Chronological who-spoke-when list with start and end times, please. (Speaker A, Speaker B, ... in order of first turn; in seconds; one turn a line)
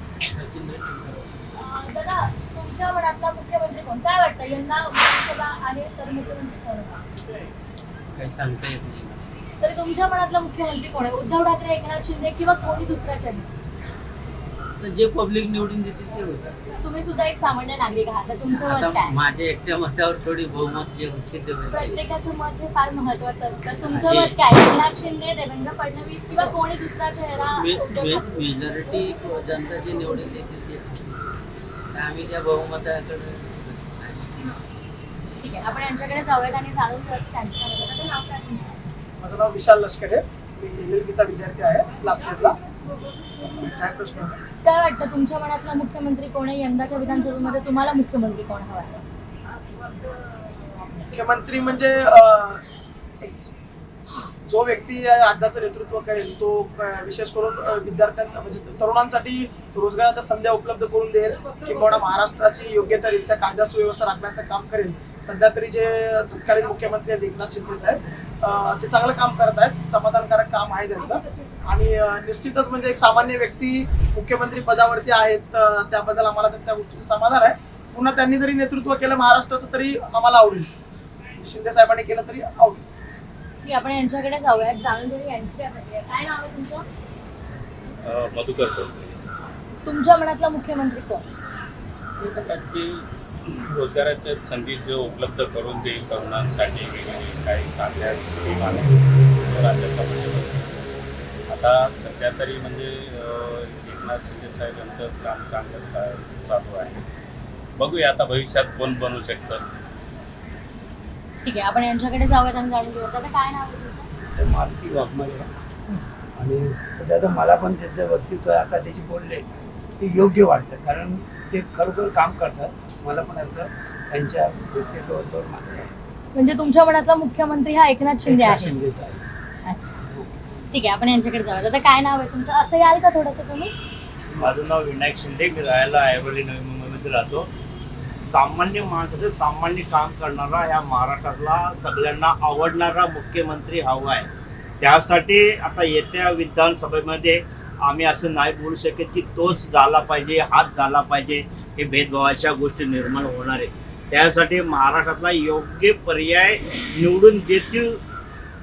Speaker A: 0.3-1.2
Speaker B: 1.5-7.0
Speaker A: 8.2-9.2
Speaker B: 9.6-13.5
Speaker A: 14.8-16.4
Speaker B: 16.8-19.1
Speaker A: 18.6-22.0
Speaker B: 21.7-28.3
Speaker A: 23.9-24.3
Speaker A: 27.6-31.2
Speaker A: 31.9-34.5
Speaker B: 35.3-38.8
Speaker C: 39.2-42.6
Speaker C: 43.6-44.3
Speaker B: 44.6-49.0
Speaker C: 51.1-52.6
Speaker C: 53.2-53.5
Speaker C: 54.5-80.7
Speaker C: 81.4-82.8
Speaker B: 83.6-86.8
Speaker D: 88.0-89.2
Speaker B: 89.8-91.2
Speaker D: 92.2-100.6
Speaker D: 101.5-107.0
Speaker D: 107.8-109.6
Speaker B: 111.4-114.1
Speaker E: 114.3-115.5
Speaker E: 116.4-125.9
Speaker B: 126.3-128.8
Speaker E: 128.2-129.2
Speaker B: 129.7-130.0
Speaker B: 130.7-133.7
Speaker F: 134.4-137.5
Speaker F: 138.2-144.3
Speaker F: 144.8-157.9